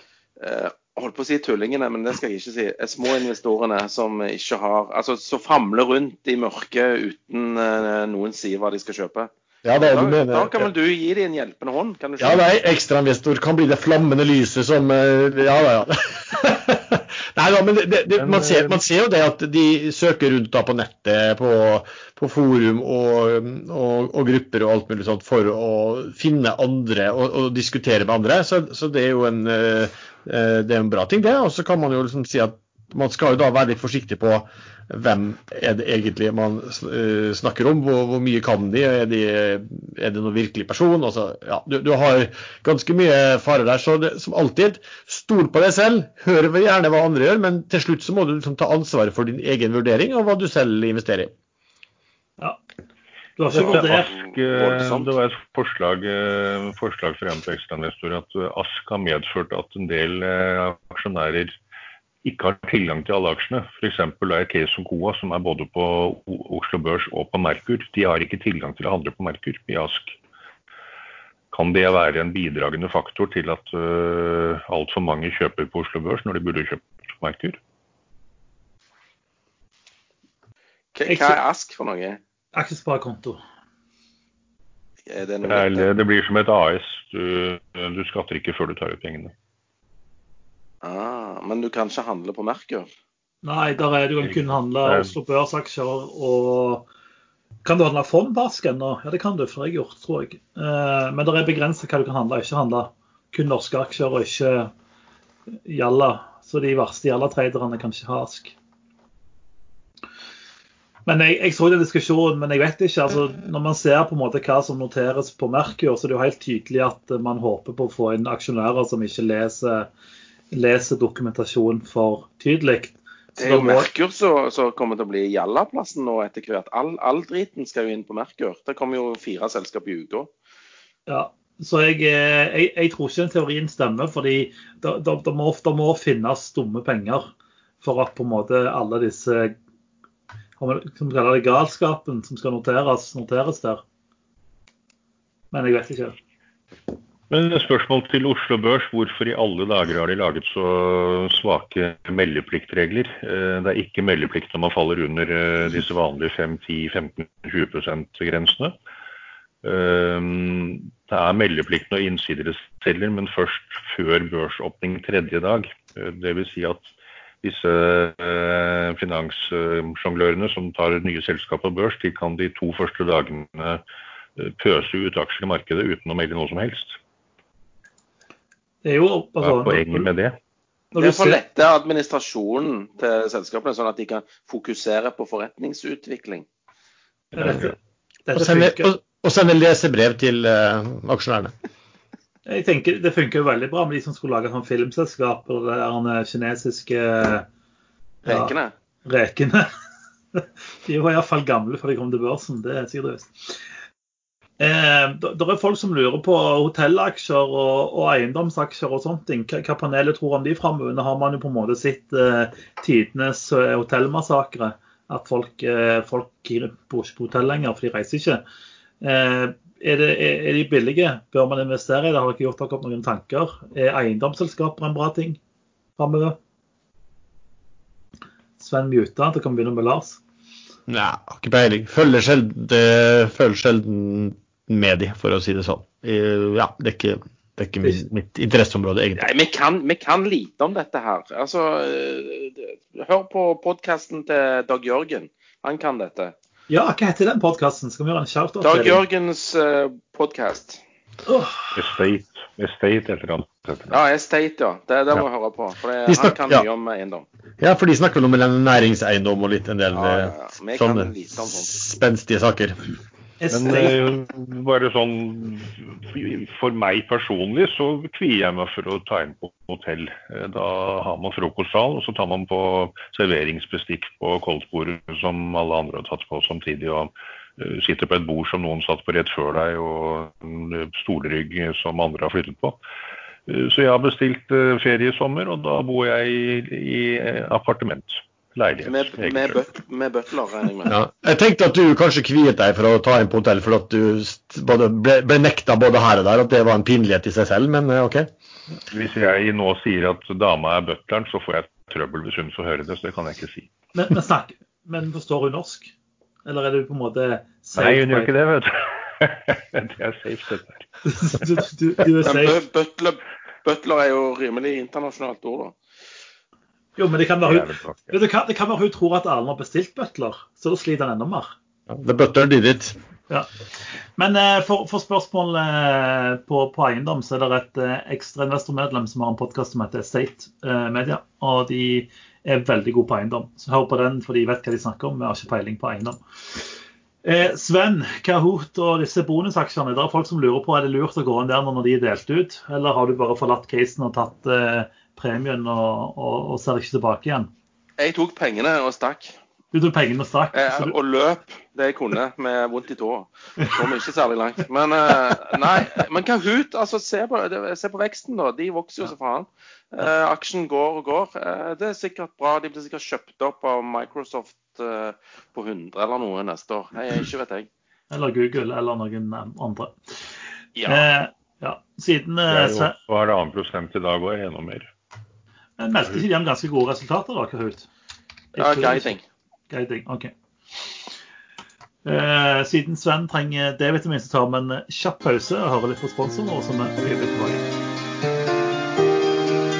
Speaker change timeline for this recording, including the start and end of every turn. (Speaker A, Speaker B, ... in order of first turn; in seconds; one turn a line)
Speaker A: 0.4-12.4
Speaker B: 9.6-10.7
Speaker B: 12.2-51.3
Speaker C: 18.1-18.8
Speaker D: 53.4-54.1
Speaker A: 53.5-55.1
Speaker C: 53.6-61.5
Speaker C: 62.2-70.2
Speaker C: 71.5-77.6
Speaker A: 80.9-82.2
Speaker D: 81.0-81.4
Speaker D: 82.5-83.4
Speaker A: 85.1-85.9
Speaker C: 85.4-89.3
Speaker A: 90.8-92.9
Speaker D: 93.4-96.8
Speaker C: 94.2-95.1
Speaker D: 97.6-104.7
Speaker D: 105.7-108.5
Speaker D: 111.0-119.9
Speaker D: 120.5-123.9
Speaker A: 123.4-130.3
Speaker D: 131.1-139.5
Speaker D: 140.6-143.8
Speaker D: 145.5-146.2
Speaker C: 147.3-158.7
Speaker C: 159.6-166.9
Speaker C: 167.4-173.8
Speaker C: 174.4-177.0
Speaker D: 178.8-180.1
Speaker C: 179.4-180.4
Speaker D: 180.9-181.4
Speaker A: 181.0-186.4
Speaker D: 187.3-187.7
Speaker D: 188.2-188.9
Speaker B: 188.3-191.5
Speaker D: 192.4-197.4
Speaker A: 198.2-198.7
Speaker D: 198.3-198.5
Speaker D: 199.1-199.7
Speaker D: 200.3-203.6
Speaker D: 204.6-218.4
Speaker D: 219.0-225.4
Speaker D: 226.0-226.4
Speaker D: 228.6-230.2
Speaker B: 230.9-239.3
Speaker A: 239.2-246.3
Speaker D: 246.7-249.0
Speaker A: 248.6-250.8
Speaker D: 251.3-251.7
Speaker C: 251.7-254.0
Speaker A: 253.9-257.2
Speaker B: 256.1-256.6
Speaker B: 257.6-262.8
Speaker A: 259.9-261.7
Speaker D: 263.4-264.0
Speaker C: 263.5-282.8
Speaker C: 283.5-289.6
Speaker A: 288.8-291.0
Speaker B: 290.9-298.3
Speaker C: 298.9-303.7
Speaker D: 303.9-305.9
Speaker D: 306.4-308.3
Speaker C: 307.8-310.9
Speaker D: 311.1-312.6
Speaker A: 312.2-315.8
Speaker D: 317.0-321.5
Speaker C: 317.4-318.1
Speaker B: 321.9-322.9
Speaker D: 324.2-336.2
Speaker D: 337.2-347.5
Speaker A: 348.0-349.3
Speaker D: 349.7-350.9
Speaker A: 350.5-367.7
Speaker D: 368.1-369.9
Speaker A: 370.8-371.1
Speaker D: 370.9-372.9
Speaker C: 372.5-374.9
Speaker D: 375.8-377.9
Speaker D: 378.5-379.2
Speaker A: 378.6-379.2
Speaker D: 379.7-380.3
Speaker D: 382.0-387.7